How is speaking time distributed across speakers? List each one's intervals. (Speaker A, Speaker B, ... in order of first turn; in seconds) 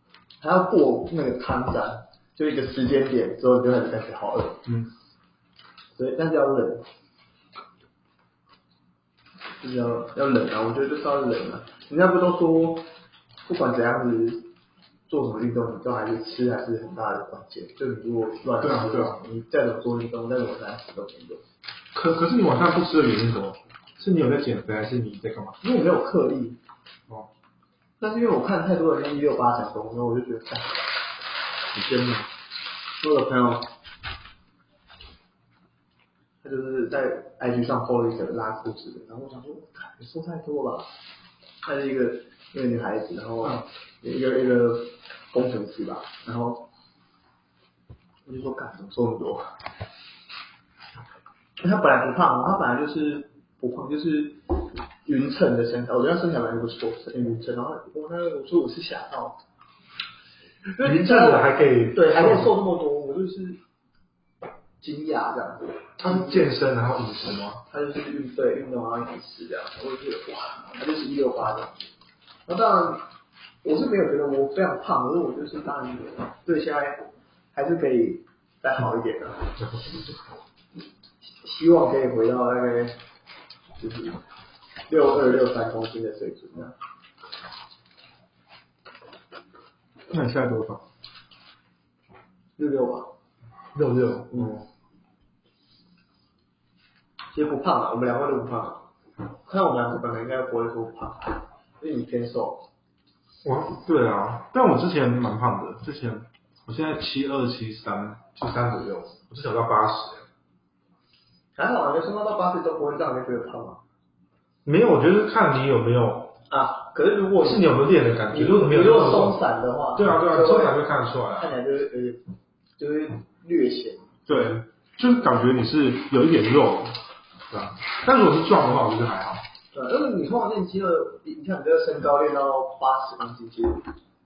Speaker A: 0.4-4.7, 6.0-6.8, 9.6-12.9, 13.4-14.5, 15.1-21.4, 25.6-26.6, 28.0-30.9, 33.0-33.7, 36.4-40.9, 41.6-46.7, 48.3-49.5, 51.6-59.4, 60.8-63.6, 64.8-66.5, 67.7-71.8, 72.5-73.1, 73.6-79.7, 81.4-83.0, 83.8-84.2, 84.9-86.8, 92.6-93.1, 94.3-94.6, 97.3-98.8, 99.4-102.7, 111.6-113.8, 116.5-117.8, 118.3-120.8, 121.4-122.2, 122.8-124.3, 129.7-133.8
Speaker B: 4.7-4.9, 18.6-19.2, 21.9-25.6, 31.7-32.3, 60.8-62.5, 66.0-67.6, 90.1-90.8, 93.7-94.7, 103.4-110.3, 114.7-116.4, 117.4-119.4, 120.0-121.5, 124.3-129.5